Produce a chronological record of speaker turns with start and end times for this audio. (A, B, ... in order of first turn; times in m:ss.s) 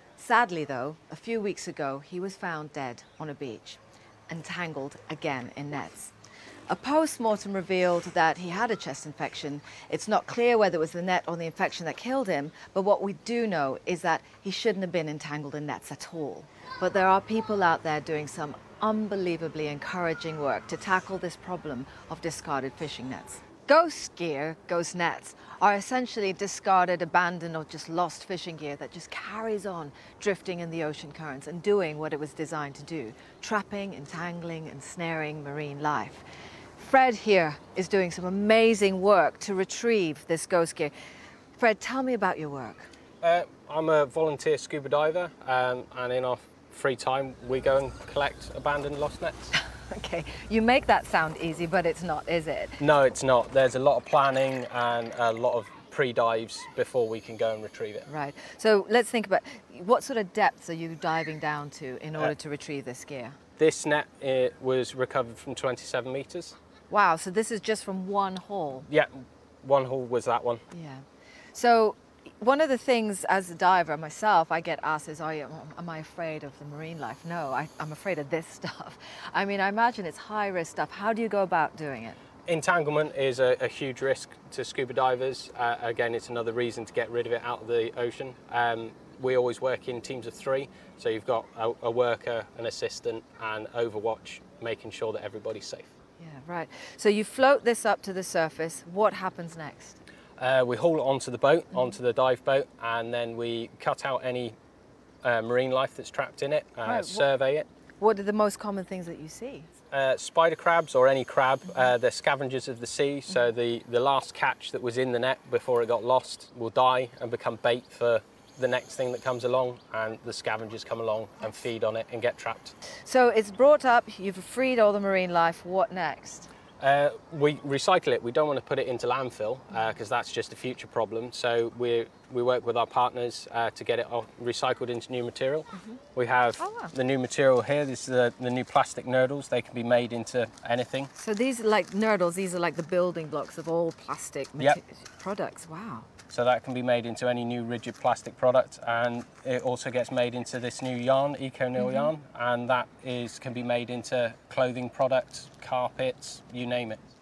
0:00.2-0:06.1 A
0:06.7-0:36.2 A
0:36.8-0:40.9 A
0:41.6-0:42.9 A
0:43.2-0:49.5 B
0:49.5-0:52.8 A
0:52.8-0:58.1 B
0:58.1-1:03.4 A
1:03.6-1:06.6 B
1:06.9-1:08.9 A
1:08.9-1:10.6 B
1:10.7-1:22.2 A
1:22.5-1:35.9 B
1:36.2-1:40.0 A
1:40.4-1:44.6 B
1:45.2-1:47.7 B
1:46.8-1:47.3 A
1:48.0-1:49.7 A
1:49.9-2:02.8 B
2:03.0-2:06.5 A
2:06.8-2:21.1 B
2:16.6-2:16.9 A
2:21.2-2:26.1 A
2:26.3-2:37.0 B
2:31.8-2:32.1 A